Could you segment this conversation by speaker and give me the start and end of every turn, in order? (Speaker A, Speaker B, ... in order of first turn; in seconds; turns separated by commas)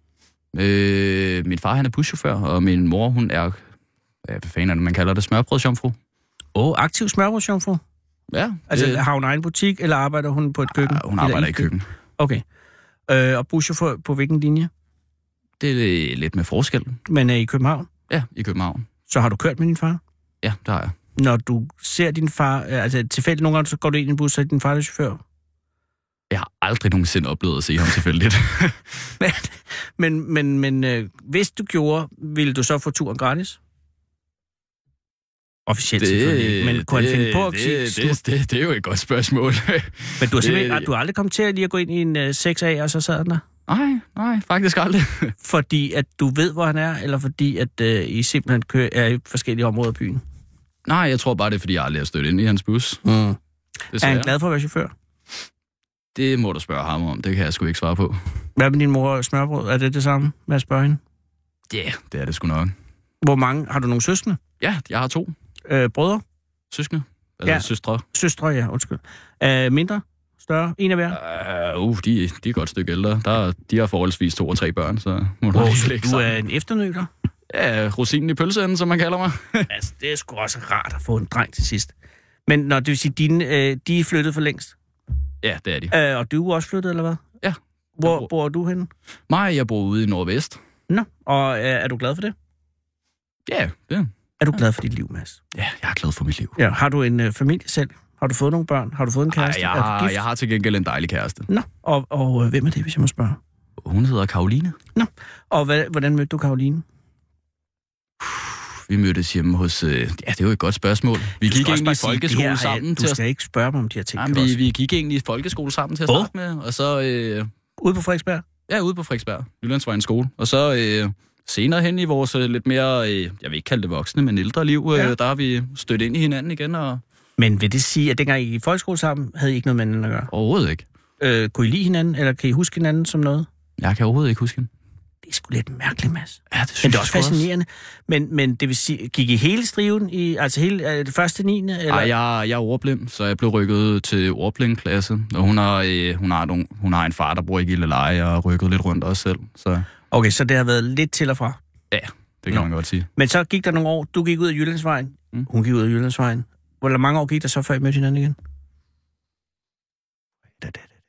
Speaker A: 0.5-3.6, Speaker A: 4.2-6.0, Speaker B: 6.5-7.8, Speaker A: 8.3-9.0, Speaker B: 8.7-12.4, Speaker A: 10.7-11.9, Speaker B: 13.1-14.7, Speaker A: 15.6-17.0, Speaker B: 17.1-17.9, Speaker A: 18.1-18.9, Speaker B: 19.1-20.0, Speaker A: 20.4-20.9, Speaker B: 21.1-25.2, Speaker A: 26.3-29.1, Speaker B: 29.2-33.6, Speaker B: 35.7-38.2, Speaker A: 36.0-40.9, Speaker B: 40.2-43.4, Speaker A: 43.7-45.3, Speaker B: 45.4-50.2, Speaker A: 50.9-53.0, Speaker B: 53.0-53.4, Speaker A: 53.9-54.3, Speaker B: 54.0-54.9, Speaker A: 56.1-58.4, Speaker B: 58.5-61.0, Speaker A: 61.7-62.7, Speaker B: 63.2-64.4, Speaker A: 64.6-65.3, Speaker B: 65.7-66.2, Speaker A: 66.7-68.0, Speaker B: 67.5-71.2, Speaker A: 71.1-76.3, Speaker B: 75.5-77.1, Speaker A: 77.5-79.7, Speaker B: 79.7-81.9, Speaker B: 82.5-84.7, Speaker A: 85.4-85.9, Speaker B: 85.9-87.2, Speaker A: 87.4-88.3, Speaker B: 88.0-88.9, Speaker A: 89.3-90.6, Speaker B: 90.9-92.3, Speaker A: 93.5-94.6, Speaker B: 94.4-95.4, Speaker A: 95.5-96.6, Speaker B: 96.6-100.2, Speaker A: 99.3-101.5, Speaker B: 101.5-103.4, Speaker A: 103.8-104.8, Speaker B: 104.9-106.8, Speaker A: 108.2-113.2, Speaker B: 111.4-114.6, Speaker A: 114.2-117.5, Speaker B: 117.8-118.5, Speaker A: 118.7-127.0, Speaker B: 127.4-130.3, Speaker A: 130.3-130.8, Speaker B: 131.2-133.5, Speaker A: 133.8-134.7, Speaker B: 135.2-142.1, Speaker A: 136.5-137.5, Speaker A: 141.9-149.9, Speaker B: 150.1-151.6, Speaker A: 151.9-153.1, Speaker B: 152.5-158.3